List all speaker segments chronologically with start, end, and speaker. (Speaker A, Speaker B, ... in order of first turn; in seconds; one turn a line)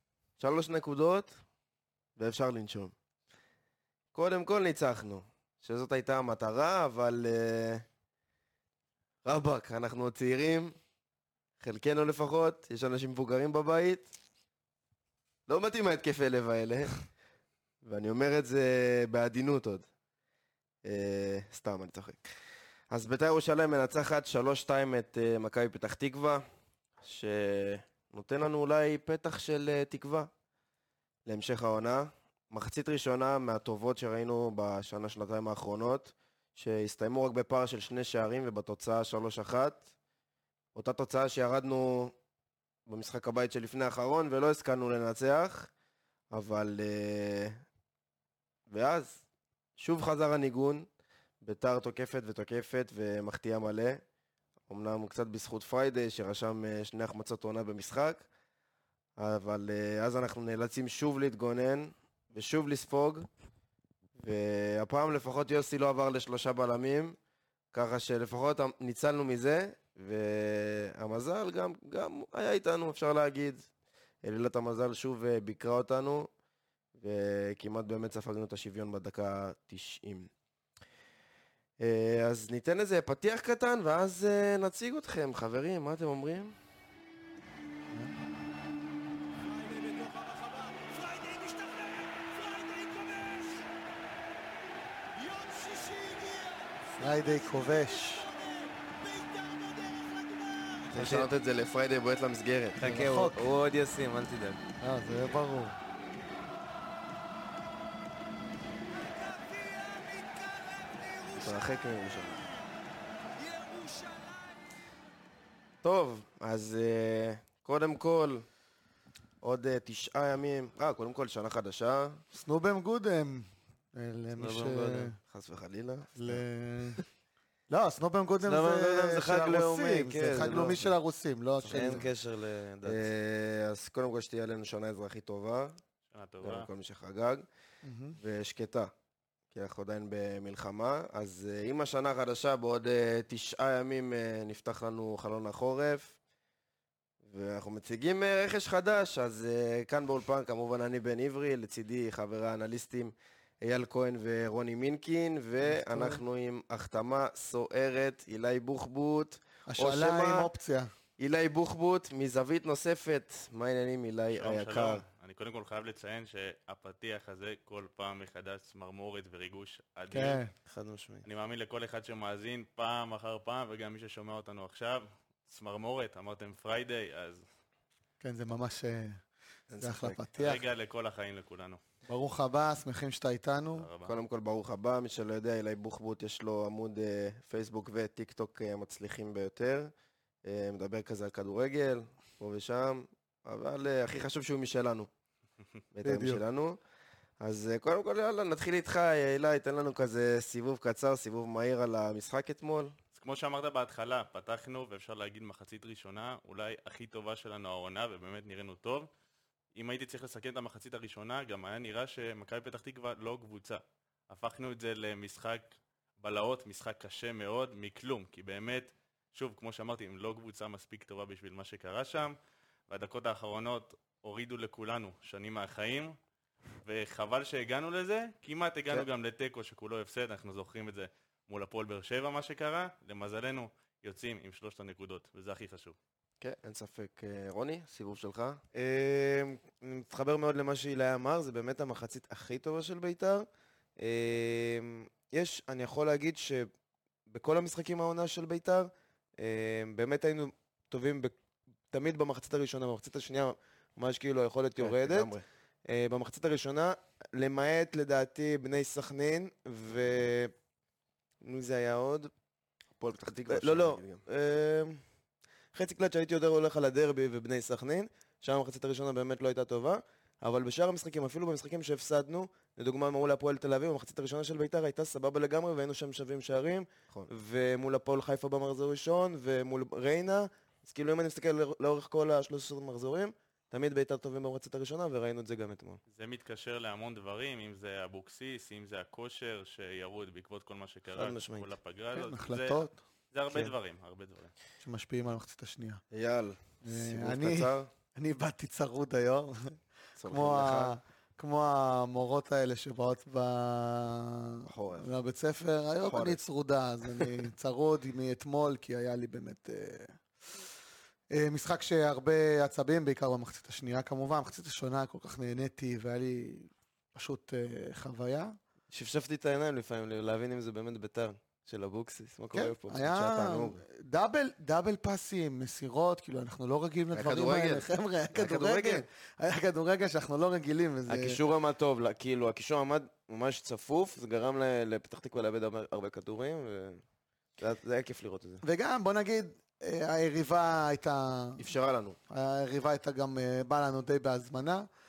Speaker A: 0.4-1.4
Speaker A: 2.2-2.9
Speaker A: 4.1-7.8
Speaker A: 9.2-10.8
Speaker A: 11.6-14.1
Speaker A: 15.5-16.9
Speaker A: 17.8-19.9
Speaker A: 20.9-22.3
Speaker A: 22.9-26.4
Speaker A: 27.0-30.3
Speaker A: 31.3-39.9
Speaker A: 40.8-42.1
Speaker A: 42.9-45.7
Speaker A: 46.3-47.6
Speaker A: 48.7-49.2
Speaker A: 49.8-50.9
Speaker A: 51.4-54.0
Speaker A: 54.7-58.2
Speaker A: 59.2-63.3
Speaker A: 64.2-67.2
Speaker A: 67.7-73.7
Speaker A: 74.2-76.3
Speaker A: 77.0-80.3
Speaker A: 81.8-86.5
Speaker B: 91.3-91.8
Speaker B: 92.8-93.2
Speaker B: 95.4-96.4
Speaker C: 97.0-98.3
Speaker B: 99.3-100.6
Speaker A: 100.9-102.8
Speaker D: 100.9-101.3
Speaker D: 102.8-104.6
Speaker C: 102.8-103.4
Speaker C: 104.8-105.8
Speaker B: 109.4-111.0
Speaker A: 111.2-112.5
Speaker B: 113.5-114.4
Speaker A: 115.8-118.5
Speaker A: 119.4-122.2
Speaker C: 122.3-125.2
Speaker D: 124.4-125.2
Speaker A: 125.3-126.4
Speaker C: 126.2-127.0
Speaker C: 127.7-132.1
Speaker D: 128.4-130.9
Speaker A: 131.6-132.1
Speaker D: 131.7-133.1
Speaker A: 132.8-135.8
Speaker E: 136.1-136.7
Speaker A: 136.4-137.5
Speaker C: 137.8-138.2
Speaker A: 138.2-138.9
Speaker A: 139.5-146.2
Speaker A: 147.2-160.5
Speaker C: 155.7-156.2
Speaker C: 159.7-160.9
Speaker A: 161.2-165.0
Speaker E: 164.3-170.4
Speaker C: 170.1-170.5
Speaker D: 170.7-171.3
Speaker E: 171.2-177.4
Speaker C: 178.2-179.2
Speaker A: 179.7-180.3
Speaker C: 179.8-180.6
Speaker E: 180.4-181.8
Speaker C: 182.1-183.9
Speaker E: 183.8-184.1
Speaker A: 184.0-189.9
Speaker A: 190.4-195.1
Speaker A: 195.9-196.8
Speaker C: 196.0-196.4
Speaker A: 197.4-202.9
Speaker E: 203.1-209.1
Speaker E: 209.8-215.7
Speaker E: 216.2-222.4
Speaker E: 222.9-226.2
Speaker E: 226.8-236.0
Speaker A: 236.4-238.6
Speaker D: 238.7-243.5
Speaker D: 244.0-246.7
Speaker D: 247.3-251.3
Speaker D: 251.9-255.3
Speaker A: 254.8-255.4
Speaker D: 255.9-260.5
Speaker D: 261.4-262.3
Speaker A: 263.0-264.2
Speaker D: 263.5-265.0
Speaker D: 265.7-286.0
Speaker E: 286.1-294.5
Speaker D: 291.1-291.7
Speaker C: 292.1-293.0
Speaker C: 294.8-296.0
Speaker A: 296.1-297.9
Speaker C: 296.9-310.2
Speaker A: 300.2-300.9
Speaker A: 304.7-305.1
Speaker A: 306.0-306.4
Speaker C: 311.3-318.6
Speaker D: 318.9-323.1
Speaker C: 322.5-331.4
Speaker A: 323.1-323.8
Speaker A: 327.1-329.1
Speaker D: 331.1-337.0
Speaker D: 337.6-338.6
Speaker C: 338.6-341.6
Speaker A: 341.6-342.2
Speaker C: 342.3-344.9